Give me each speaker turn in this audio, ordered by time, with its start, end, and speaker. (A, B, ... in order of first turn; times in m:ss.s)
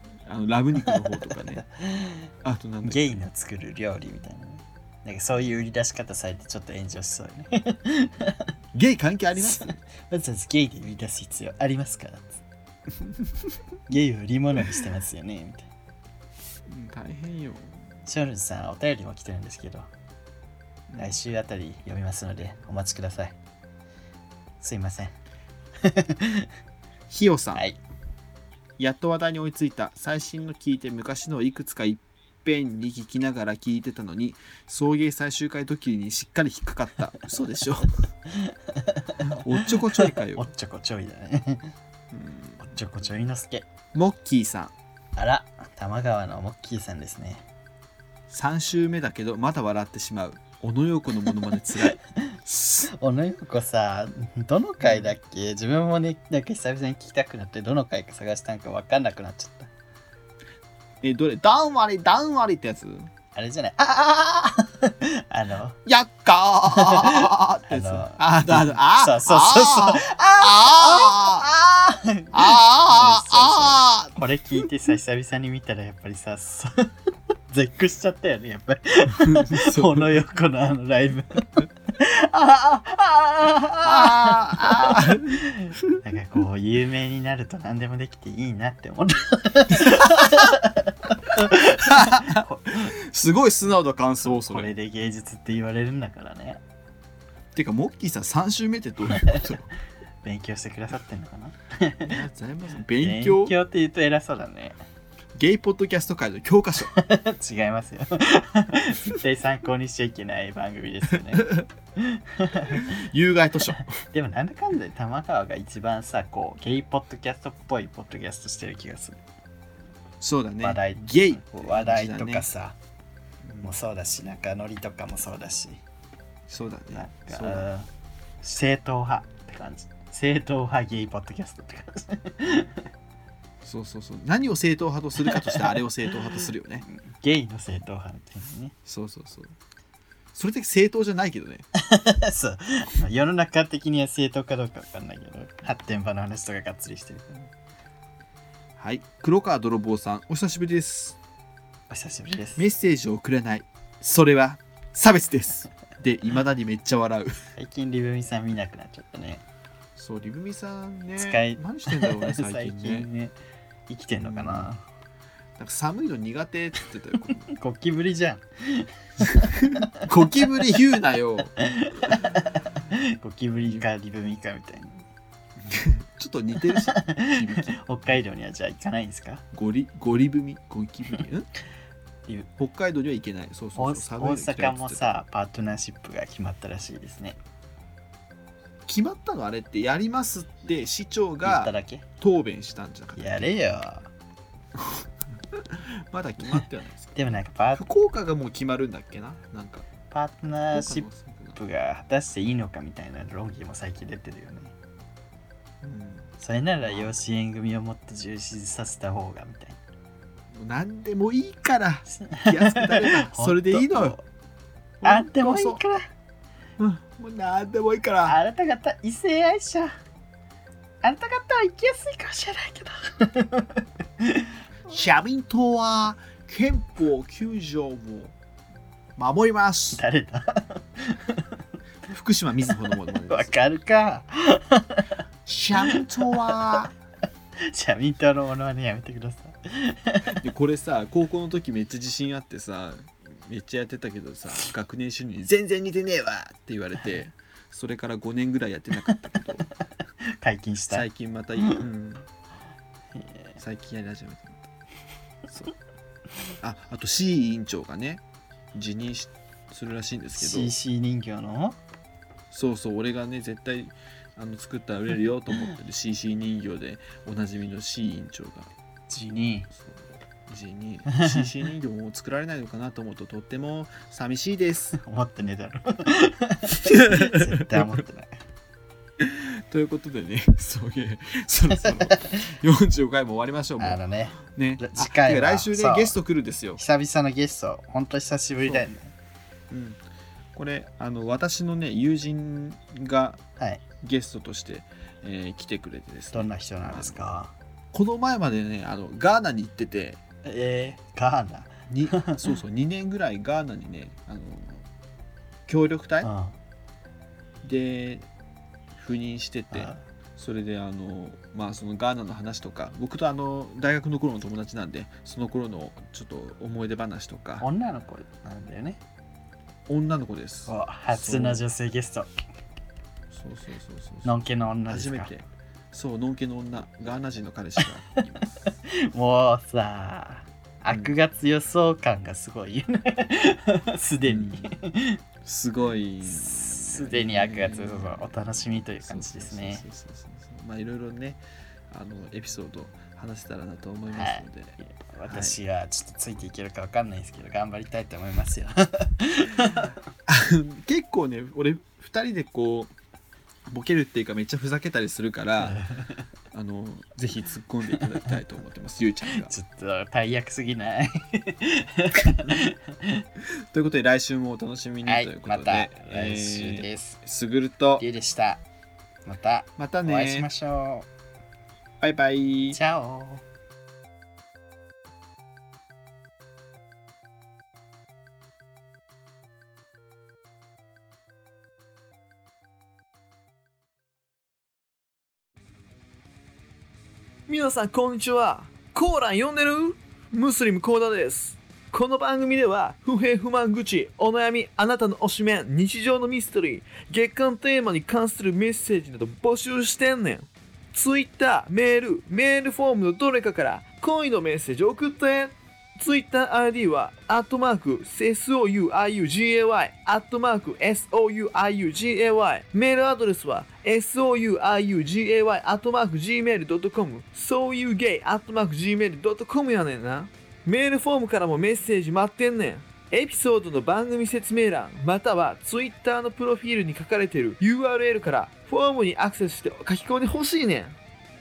0:00.2-0:01.6 A
0:00.9-0:02.3 B
0:02.4-0:03.2 A
0:02.8-0:08.5 B
0:08.7-0:09.7 A
0:09.4-0:12.4 B
0:13.9-0:15.6 B
0:16.7-0:17.9 A
0:18.0-0:19.9 B
0:20.9-0:21.1 A
0:21.0-0:23.4 B
0:24.6-0:25.2 B
0:25.8-0:26.5 B
0:27.1-0:27.6 A
0:28.8-0:38.0 A
0:38.3-0:41.7 B
0:39.2-0:40.5 A
0:42.1-0:42.7 A
0:42.6-0:43.6 B
0:43.9-0:44.7 A
0:45.2-0:47.4 B
0:48.3-0:52.9 A
0:51.7-0:59.7 B
0:54.8-0:55.1 A
1:01.0-1:03.1 A
1:03.3-1:05.8 B
1:05.8-1:11.4 A
1:06.7-1:16.9 B
1:12.3-1:14.6 A
1:17.5-1:32.9 B
1:19.3-1:20.1 A
1:23.8-1:26.0 A
1:31.8-1:34.7 A
1:34.2-1:36.6 B
1:37.5-1:39.7 A
1:39.1-1:39.5 B
1:40.2-1:42.2 B
1:42.0-1:43.5 A
1:43.0-1:44.8 B
1:45.3-1:46.9 A
1:46.9-1:53.0 B
1:51.4-1:51.6 A
1:52.7-1:54.0 A
1:53.9-1:59.2 B
2:00.2-2:02.5 A
2:00.6-2:02.8 B
2:03.4-2:03.7 A
2:03.6-2:05.8 B
2:06.5-2:07.7 A
2:06.9-2:07.9 B
2:08.4-2:12.9 B
2:13.6-2:16.9 A
2:15.2-2:15.8 B
2:16.9-2:18.7 B
2:18.8-2:19.5 A
2:20.3-2:21.6 A
2:21.7-2:27.5 B
2:28.8-2:31.2 A
2:31.9-2:32.6 B
2:32.6-2:37.4 A
2:37.6-2:39.4 B
2:40.0-2:43.1 A
2:41.2-2:43.3 B
2:43.9-2:44.8 B
2:44.2-2:44.7 A
2:45.6-2:47.5 A
2:47.5-2:50.0 B
2:49.2-2:52.5 A
2:51.6-2:55.0 B
2:55.6-2:58.1 A
2:56.7-2:59.4 B
2:59.5-3:01.5 A
3:02.6-3:05.1 A
3:03.7-3:07.4 B
3:08.9-3:13.6 A
3:11.4-3:12.0 B
3:13.1-3:14.1 B
3:14.8-3:19.8 A
3:17.1-3:17.8 B
3:20.1-3:24.7 B
3:20.7-3:21.6 A
3:25.8-3:26.3 A
3:26.4-3:29.8 B
3:26.8-3:27.1 A
3:30.5-3:34.2 A
3:32.1-3:34.2 B
3:35.0-3:35.8 A
3:35.0-3:36.1 B
3:36.8-3:38.4 A
3:38.2-3:40.0 B
3:41.0-3:44.6 B
3:44.9-3:48.3 A
3:49.2-3:50.0 A
3:49.9-3:51.6 B
3:52.0-3:53.5 A
3:53.3-3:56.8 B
3:55.4-3:56.9 A
3:57.6-4:00.4 B
4:00.2-4:09.6 A
4:10.2-4:11.1 B
4:10.9-4:12.3 A
4:13.1-4:13.6 B
4:13.6-4:14.7 A
4:15.5-4:15.7 A
4:16.6-4:18.2 A
4:18.7-4:20.7 A
4:20.4-4:21.8 B
4:22.5-4:28.7 A
4:29.1-4:29.7 B
4:29.7-4:35.0 A
4:31.1-4:31.5 B
4:34.9-4:38.4 B
4:36.8-4:38.0 A
4:39.2-4:44.0 A
4:41.9-4:42.3 B
4:43.8-4:46.2 B
4:44.5-4:46.8 A
4:46.8-4:49.1 B
4:48.6-4:48.9 A
4:49.7-4:50.0 A
4:50.5-4:53.4 A
4:53.6-4:53.8 B
4:54.0-4:57.2 A
4:56.3-4:57.5 B
4:57.9-5:00.2 A
5:00.4-5:02.5 B
5:01.9-5:04.8 A
5:05.7-5:06.3 A
5:06.2-5:06.5 B
5:07.6-5:08.3 A
5:09.0-5:17.7 A
5:09.7-5:10.0 B
5:17.6-5:19.0 B
5:19.9-5:21.6 A
5:20.7-5:22.3 B
5:23.3-5:24.3 A
5:24.2-5:25.3 B
5:24.9-5:28.7 A
5:28.8-5:35.2 B
5:30.9-5:31.1 A
5:34.2-5:34.8 A
5:35.4-5:45.6 A
5:36.2-5:39.8 B
5:44.1-5:49.9 B
5:50.3-5:52.9 A
5:53.7-5:55.8 A
5:55.6-5:56.2 B
5:56.5-5:59.5 A
5:57.9-5:58.4 B
5:59.3-6:03.2 B
6:03.7-6:08.0 A
6:05.0-6:07.2 B
6:08.0-6:08.6 B
6:09.2-6:11.1 B
6:09.8-6:10.5 A
6:12.0-6:12.8 A
6:12.7-6:13.4 B
6:27.5-7:11.0 C